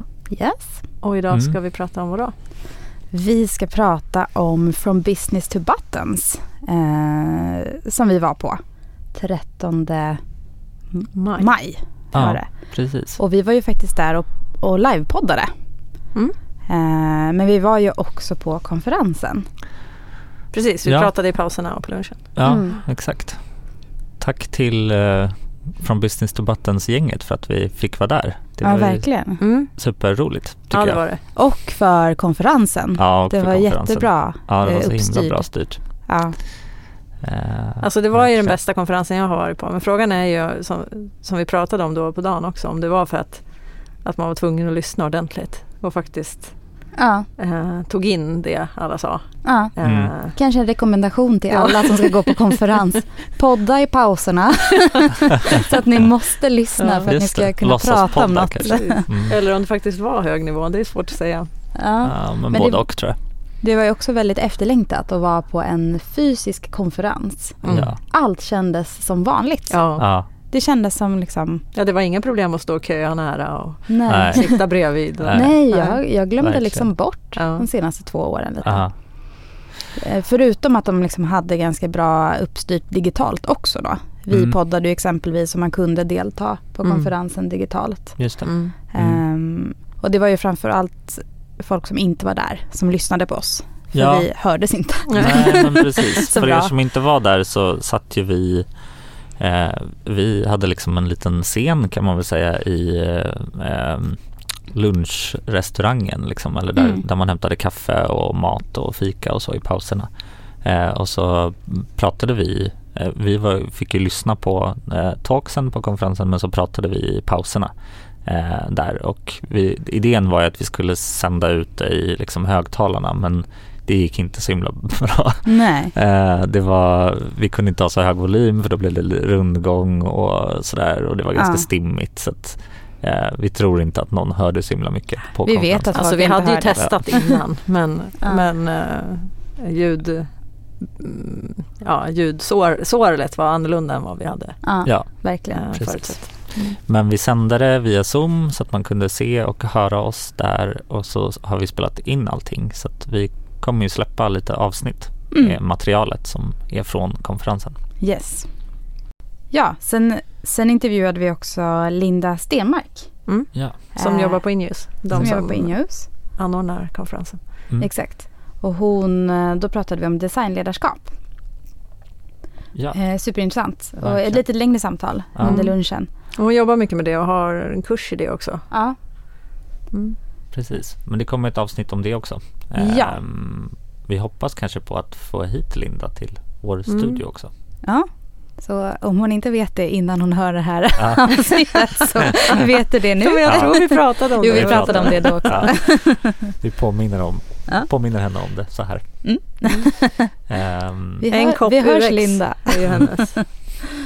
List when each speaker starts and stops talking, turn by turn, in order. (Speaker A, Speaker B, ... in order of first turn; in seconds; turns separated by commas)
Speaker A: 0.3-0.9, Speaker B: 1.0-2.4, Speaker C: 1.3-1.6, Speaker A: 3.1-10.2, Speaker A: 10.8-15.5, Speaker B: 11.2-11.6, Speaker C: 12.1-13.2, Speaker A: 16.7-19.5, Speaker B: 20.5-22.8, Speaker C: 20.9-21.1, Speaker C: 22.4-31.0, Speaker A: 22.4-22.8, Speaker A: 28.6-29.4, Speaker B: 29.4-31.2, Speaker A: 31.3-36.4, Speaker C: 33.0-35.8, Speaker C: 37.2-38.6, Speaker B: 37.8-50.4, Speaker A: 47.0-47.3, Speaker A: 49.4-59.1, Speaker C: 49.8-50.1, Speaker B: 51.5-52.6, Speaker B: 56.8-57.1, Speaker C: 57.0-59.4, Speaker B: 58.6-61.7, Speaker A: 61.8-71.6, Speaker C: 62.0-63.2, Speaker B: 67.6-67.9, Speaker C: 67.7-68.0, Speaker B: 69.7-70.1, Speaker C: 70.0-70.3, Speaker B: 71.7-76.0, Speaker A: 73.9-96.7, Speaker C: 74.1-77.0, Speaker B: 77.3-77.7, Speaker C: 78.6-79.6, Speaker C: 84.3-84.6, Speaker B: 86.8-87.1, Speaker C: 88.2-89.2, Speaker B: 88.5-88.7, Speaker C: 93.9-136.9, Speaker B: 95.1-96.2, Speaker A: 106.8-107.0, Speaker A: 125.5-125.9, Speaker A: 131.3-131.7, Speaker A: 135.4-137.4, Speaker B: 135.9-146.8, Speaker A: 144.6-146.1, Speaker C: 144.8-157.8, Speaker A: 155.3-155.6, Speaker A: 158.0-158.5, Speaker A: 159.5-166.1, Speaker B: 163.3-167.6, Speaker C: 165.1-165.4, Speaker A: 167.8-171.1, Speaker C: 172.7-173.2, Speaker A: 172.9-176.1, Speaker C: 173.8-175.7, Speaker B: 175.4-178.7, Speaker A: 178.7-179.0, Speaker B: 179.9-180.2, Speaker C: 180.5-187.5, Speaker A: 182.8-183.2, Speaker B: 186.9-187.2, Speaker A: 187.8-196.5, Speaker C: 191.0-192.1, Speaker B: 192.5-195.7, Speaker C: 193.5-199.3, Speaker A: 199.2-200.4, Speaker B: 199.6-199.9, Speaker C: 200.5-201.3, Speaker A: 201.2-203.4, Speaker B: 201.3-203.8